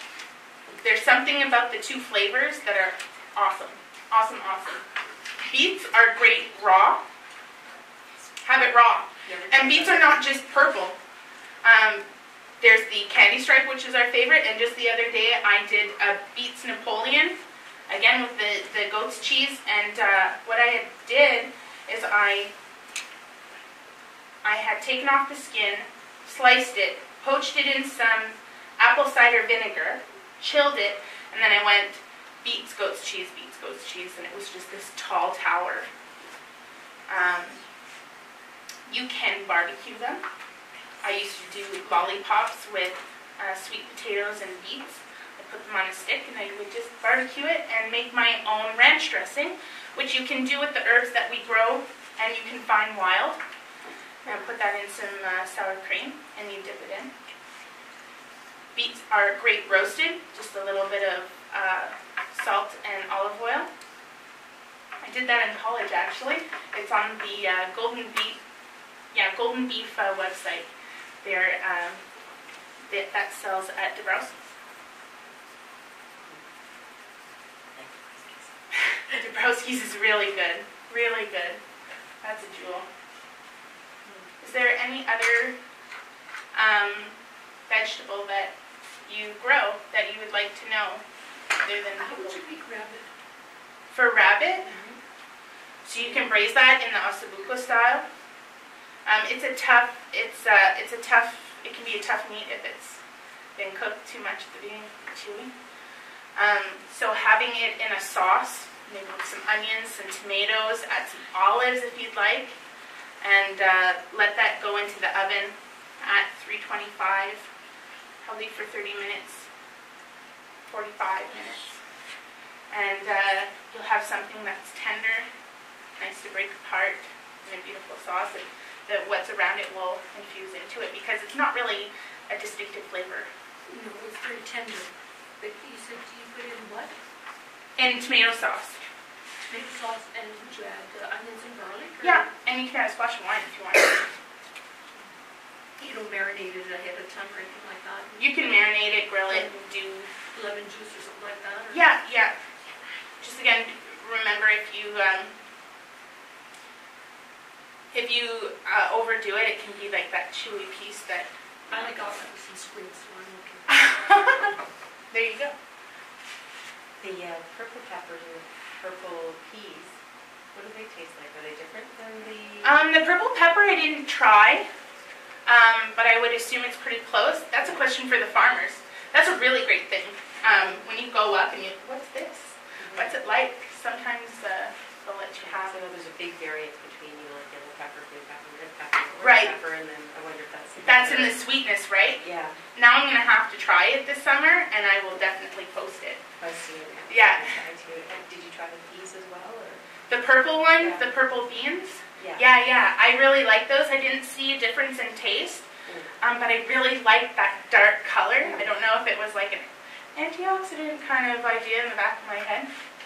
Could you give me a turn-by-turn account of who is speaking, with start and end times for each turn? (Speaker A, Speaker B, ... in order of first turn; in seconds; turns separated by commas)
Speaker A: 0.8-4.8, Speaker A: 5.5-7.0, Speaker A: 8.4-10.9, Speaker B: 9.2-10.2, Speaker A: 11.6-12.1, Speaker A: 12.6-17.4, Speaker A: 17.9-22.5, Speaker A: 24.4-35.9, Speaker A: 37.1-37.6, Speaker A: 38.9-40.2, Speaker A: 41.0-53.4, Speaker A: 54.2-57.1, Speaker A: 58.7-63.7, Speaker A: 65.0-68.4, Speaker A: 69.1-70.7, Speaker A: 71.2-72.0, Speaker A: 72.9-74.3, Speaker B: 77.7-78.5, Speaker A: 78.7-81.6, Speaker A: 82.2-82.9, Speaker B: 84.0-84.3, Speaker A: 84.4-85.6, Speaker A: 86.5-87.2, Speaker A: 87.7-88.5, Speaker A: 89.1-91.0, Speaker A: 91.6-92.4, Speaker C: 92.0-93.1, Speaker A: 93.9-94.8, Speaker C: 94.7-95.0, Speaker A: 95.8-98.0, Speaker A: 99.0-103.0, Speaker A: 103.6-105.5, Speaker A: 106.3-112.6, Speaker A: 113.2-117.5, Speaker A: 118.2-119.5, Speaker A: 120.7-121.7, Speaker A: 122.7-125.3, Speaker A: 126.0-133.3, Speaker C: 133.7-136.9, Speaker A: 137.8-138.8, Speaker C: 139.5-142.3, Speaker A: 142.0-144.1, Speaker C: 145.8-148.5, Speaker A: 148.2-150.1, Speaker C: 149.3-149.6, Speaker C: 150.3-151.9, Speaker A: 151.7-152.3, Speaker A: 153.2-155.3, Speaker A: 157.9-162.2, Speaker C: 161.7-163.8, Speaker A: 163.7-164.6, Speaker A: 165.1-165.6, Speaker B: 167.0-169.9, Speaker B: 170.5-172.9, Speaker A: 172.6-174.7, Speaker A: 175.4-185.8, Speaker B: 177.6-177.9, Speaker B: 180.4-180.8, Speaker B: 182.8-183.2, Speaker B: 185.3-191.4, Speaker A: 189.2-189.5, Speaker A: 190.8-192.2, Speaker B: 192.2-192.6, Speaker A: 192.7-196.2, Speaker B: 196.4-200.0, Speaker A: 197.1-197.6, Speaker A: 200.1-205.7, Speaker B: 200.7-201.2, Speaker B: 202.2-202.5, Speaker B: 205.8-206.1, Speaker A: 206.2-212.7, Speaker B: 208.4-208.7